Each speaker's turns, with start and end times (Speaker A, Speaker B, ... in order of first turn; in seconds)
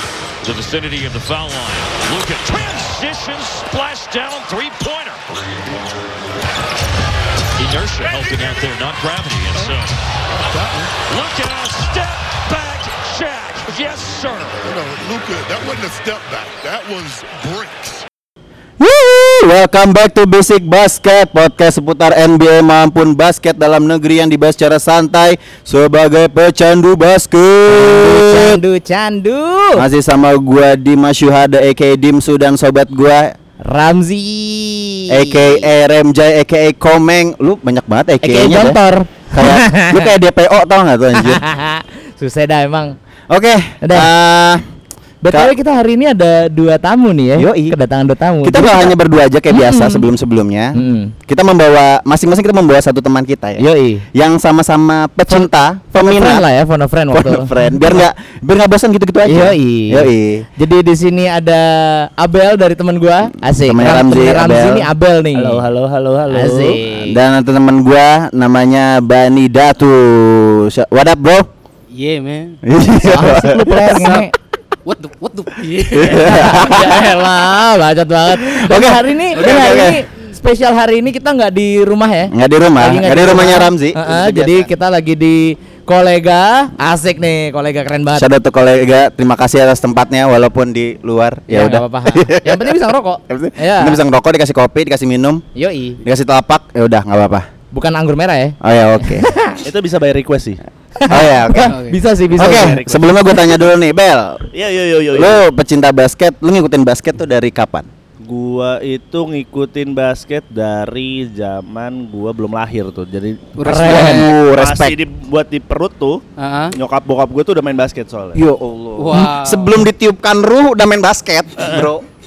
Speaker A: 0.4-5.4, 7.6-10.0, 11.0-14.7
Speaker B: 10.5-10.9, 14.7-18.1
Speaker C: 18.8-28.6, 29.8-33.4, 35.1-38.8, 39.3-41.4, 43.3-44.6, 47.4-47.8, 48.4-56.4, 57.1-60.5, 63.5-64.9, 66.9-71.5, 72.7-73.9, 75.9-77.1, 78.3-80.0, 82.3-84.7, 88.2-92.8, 93.3-95.4, 96.0-97.5, 98.6-99.3, 101.1-101.8, 102.3-104.5, 105.1-107.9, 113.7-115.0, 118.3-122.0
Speaker D: 27.7-29.9, 33.6-35.7, 38.2-40.1, 41.1-43.0, 43.8-44.1, 45.2-49.0, 49.5-50.1, 50.7-51.1, 53.6-54.1, 55.3-58.0, 59.2-65.7, 66.3-67.2, 73.0-74.3, 76.0-88.3, 91.5-94.0, 95.5-96.0, 97.7-99.7, 101.0-102.8, 113.6-114.3
Speaker E: 65.4-66.8, 99.6-100.6, 102.3-103.6, 104.5-105.4, 108.2-113.5, 114.1-116.2, 116.7-118.4, 121.6-121.9
Speaker F: 71.9-72.6, 73.8-74.3, 74.8-76.8, 101.7-102.0, 113.6-114.3, 116.4-116.8, 119.0-119.9